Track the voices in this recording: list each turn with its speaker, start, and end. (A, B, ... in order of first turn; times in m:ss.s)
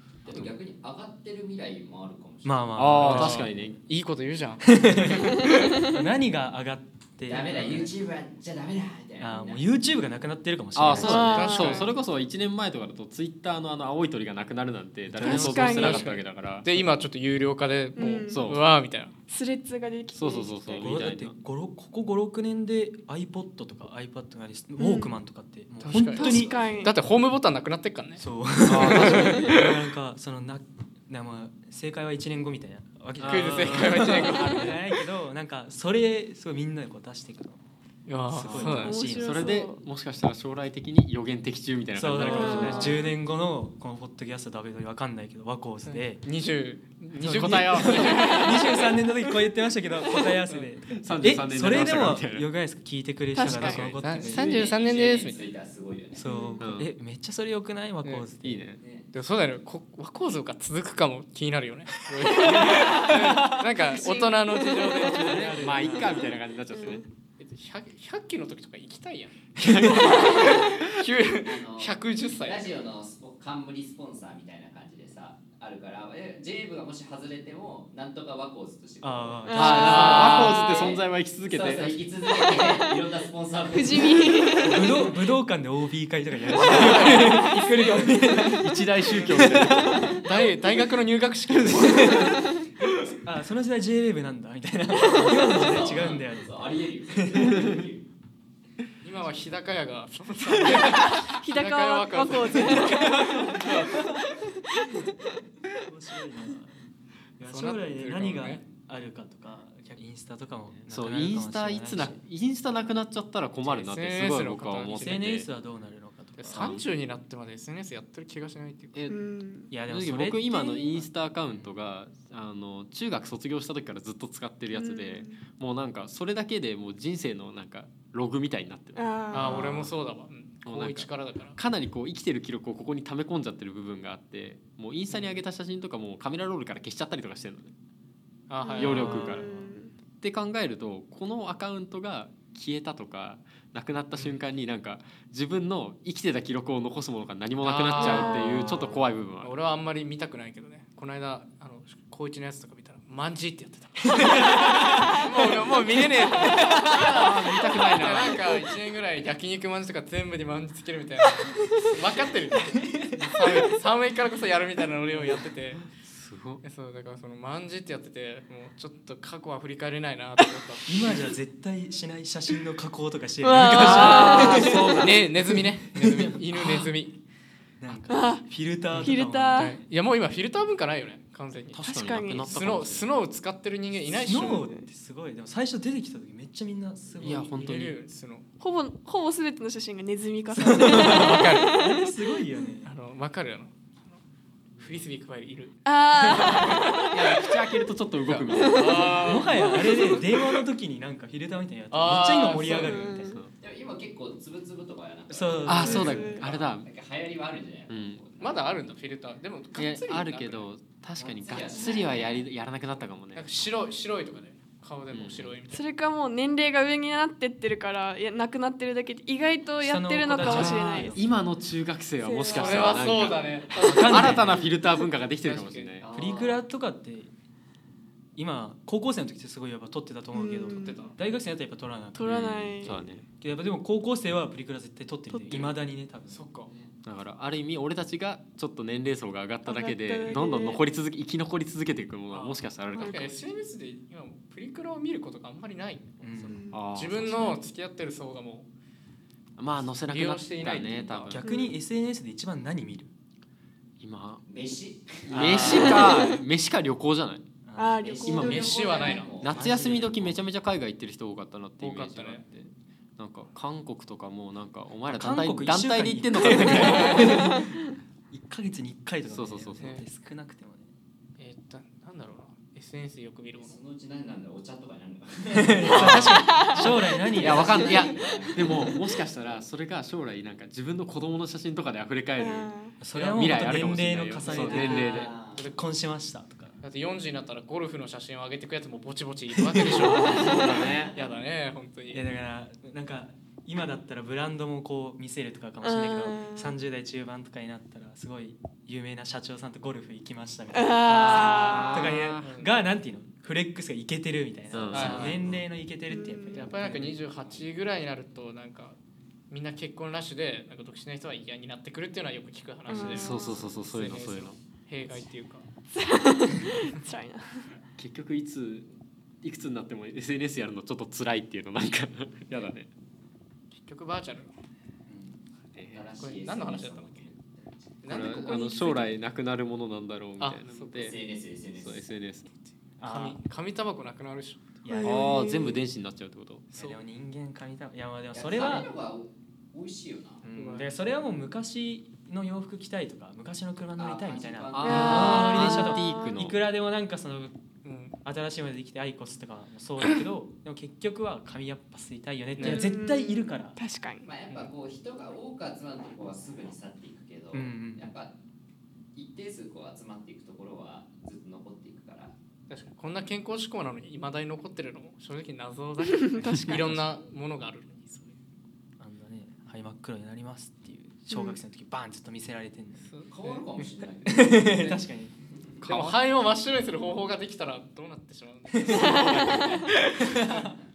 0:00.2-0:02.6 A
0:02.4-0:03.5 B
0:02.8-0:03.8 C
0:02.9-0:05.4 D
0:04.7-0:07.9 B
0:07.3-0:09.6 A
0:09.2-0:11.6 B
0:10.7-0:16.8 C
0:10.9-0:11.9 D
0:11.0-0:11.9 E
0:15.1-0:16.0 B
0:15.2-0:16.0 E
0:15.6-0:19.1 D
0:18.0-0:18.5 E
0:18.3-0:18.6 C
0:19.3-0:20.8 E
0:20.1-0:21.4 C
0:20.8-0:26.5 B
0:24.8-0:25.1 E
0:25.8-0:29.6 D
0:26.2-0:27.0 E
0:26.4-0:26.7 A
0:28.2-0:37.6 B
0:28.6-0:29.6 C
0:33.2-0:34.7 C
0:33.2-0:34.7 D
0:38.1-0:39.0 D
0:38.2-0:39.4 B
0:38.5-0:39.8 E
0:39.2-0:42.8 C
0:41.9-0:46.2 B
0:42.2-0:43.1 E
0:45.8-0:48.8 D
0:47.2-0:54.8 B
0:50.4-0:50.7 D
0:51.0-0:52.5 C
0:53.3-0:53.9 E
0:53.4-0:55.4 D
0:54.2-0:56.2 A
0:56.1-0:58.6 B
0:56.2-0:56.6 E
0:56.6-0:56.9 C
0:58.0-0:58.3 D
0:58.4-0:58.8 C
0:58.8-0:59.1 A
0:59.1-1:06.0 D
1:03.9-1:04.3 E
1:04.8-1:06.3 B
1:05.2-1:07.0 C
1:06.7-1:07.0 E
1:07.4-1:12.7 D
1:09.6-1:10.6 C
1:11.4-1:25.3 A
1:19.0-1:20.2 B
1:19.4-1:20.7 E
1:19.5-1:22.0 C
1:19.6-1:20.4 D
1:22.3-1:23.1 E
1:23.6-1:25.0 E
1:24.6-1:30.2 B
1:26.6-1:27.5 D
1:28.6-1:30.1 C
1:29.1-1:32.3 D
1:31.7-1:32.3 B
1:32.1-1:32.4 E
1:33.2-1:37.8 B
1:35.0-1:35.6 E
1:35.2-1:38.0 A
1:39.0-1:43.1 D
1:40.8-1:45.4 E
1:42.5-1:44.3 B
1:45.8-1:46.8 B
1:47.4-1:52.2 B
1:47.4-1:48.6 D
1:50.9-1:55.5 C
1:53.6-1:55.2 D
1:54.9-1:56.8 B
1:56.4-1:59.0 D
1:56.5-1:56.8 C
1:59.1-1:59.7 E
1:59.7-2:00.7 B
1:59.9-2:09.9 C
2:00.5-2:01.0 E
2:04.7-2:05.4 E
2:08.9-2:09.8 E
2:09.3-2:11.6 D
2:10.6-2:17.7 C
2:15.1-2:15.4 D
2:18.5-2:19.0 D
2:18.6-2:19.9 E
2:18.8-2:19.4 C
2:18.8-2:19.7 B
2:20.2-2:29.5 C
2:27.6-2:28.5 D
2:28.0-2:29.0 E
2:29.4-2:37.3 D
2:36.9-2:38.5 C
2:38.0-2:45.8 D
2:45.9-2:46.6 C
2:46.6-2:51.2 D
2:50.9-2:56.9 B
2:53.4-2:54.9 E
2:53.8-2:55.1 C
2:53.8-2:57.2 D
2:57.8-2:59.8 B
2:58.1-2:58.4 E
2:58.9-3:04.6 D
2:59.0-2:59.8 E
3:01.7-3:03.1 C
3:01.8-3:02.5 E
3:04.1-3:07.5 B
3:04.4-3:04.8 E
3:07.2-3:08.0 C
3:07.4-3:08.4 D
3:08.6-3:12.0 E
3:10.5-3:12.9 B
3:10.8-3:11.7 D
3:12.8-3:14.2 D
3:14.8-3:17.4 D
3:15.8-3:17.0 E
3:17.1-3:19.4 C
3:18.2-3:19.8 D
3:18.5-3:19.0 E
3:19.2-3:23.4 B
3:19.7-3:20.3 E
3:21.9-3:23.1 D
3:22.7-3:23.4 E
3:23.6-3:26.0 A
3:25.3-3:26.7 B
3:25.6-3:26.9 C
3:25.8-3:26.5 E
3:26.6-3:28.6 A
3:27.9-3:28.2 C
3:28.4-3:30.7 D
3:29.8-3:33.4 C
3:31.2-3:32.5 A
3:31.7-3:32.0 E
3:33.3-3:35.8 D
3:35.1-3:35.6 C
3:35.7-3:41.2 E
3:39.8-3:41.2 B
3:40.4-3:46.1 C
3:42.1-3:43.1 E
3:42.5-3:44.5 D
3:43.8-3:44.7 B
3:45.4-3:45.9 D
3:46.0-3:46.6 A
3:46.1-3:47.3 B
3:48.4-3:52.3 B
3:50.3-3:51.1 E
3:50.8-3:51.1 D
3:52.1-3:53.1 E
3:52.2-3:53.3 C
3:53.4-3:56.4 B
3:55.3-3:55.6 E
3:56.3-3:56.7 D
3:56.7-3:56.9 A
3:57.0-4:03.5 C
3:59.6-4:00.8 E
4:02.3-4:08.7 D
4:02.9-4:03.3 E
4:06.2-4:06.6 B
4:06.5-4:06.8 E
4:06.7-4:07.6 C
4:09.6-4:11.4 C
4:10.0-4:11.4 D
4:11.3-4:13.1 B
4:11.4-4:11.7 E
4:14.0-4:14.4 C
4:14.4-4:16.0 A
4:15.3-4:17.4 C
4:15.4-4:15.8 B
4:15.4-4:16.1 D
4:16.1-4:16.3 E
4:17.6-4:18.0 B
4:17.8-4:19.2 E
4:18.0-4:19.9 A
4:18.2-4:27.5 C
4:18.4-4:19.3 D
4:19.4-4:20.5 B
4:21.8-4:22.4 D
4:25.1-4:27.7 B
4:26.4-4:27.7 E
4:26.7-4:27.2 D
4:26.8-4:27.3 A
4:28.3-4:30.9 B
4:29.2-4:29.9 C
4:29.8-4:30.0 D
4:31.4-4:33.8 D
4:33.5-4:39.0 A
4:35.5-4:38.0 B
4:35.8-4:36.4 C
4:37.3-4:42.7 C
4:42.4-4:43.0 E
4:43.0-4:46.8 B
4:43.1-4:45.8 D
4:43.3-4:45.3 C
4:44.5-4:45.6 A
4:46.8-4:52.2 D
4:49.7-4:51.1 B
4:50.1-4:51.4 A
4:50.3-4:50.8 E
4:50.4-4:51.1 C
4:52.1-5:07.2 B
4:55.8-4:56.8 E
5:00.7-5:02.0 E
5:01.1-5:02.4 C
5:02.4-5:02.7 D
5:04.7-5:05.6 C
5:04.9-5:05.4 D
5:06.1-5:06.7 E
5:06.5-5:09.0 D
5:09.5-5:15.6 D
5:12.9-5:13.7 E
5:12.9-5:14.6 C
5:15.9-5:17.7 E
5:18.0-5:18.9 C
5:19.4-5:22.9 C
5:23.7-5:24.5 D
5:25.1-5:25.4 B
5:25.7-5:26.1 C
5:25.9-5:28.2 A
5:26.2-5:27.3 D
5:28.0-5:29.1 D
5:28.1-5:31.2 C
5:30.4-5:31.1 D
5:31.0-5:32.0 A
5:31.7-5:32.5 C
5:32.6-5:34.6 D
5:33.0-5:33.4 B
5:34.8-5:35.5 B
5:34.9-5:35.8 E
5:35.0-5:36.7 C
5:36.7-5:37.0 D
5:36.7-5:38.9 B
5:38.3-5:40.4 A
5:40.4-5:47.6 B
5:40.5-5:40.9 D
5:44.0-5:45.7 A
5:44.7-5:46.6 C
5:44.8-5:46.4 E
5:47.8-5:48.2 D
5:48.2-5:53.8 B
5:52.6-5:52.8 D
5:52.6-5:54.3 E
5:54.2-5:58.3 A
5:57.5-5:58.1 B
5:59.1-6:02.3 A
6:02.7-6:08.3 D
6:06.0-6:06.9 E
6:06.7-6:07.2 B
6:09.0-6:13.1 B
6:11.3-6:11.6 E
6:13.0-6:13.7 D
6:13.3-6:14.9 A
6:14.2-6:15.4 B
6:14.7-6:14.9 D
6:15.8-6:16.2 C
6:15.8-6:20.6 D
6:18.7-6:19.4 B
6:18.9-6:19.7 E
6:20.3-6:20.6 B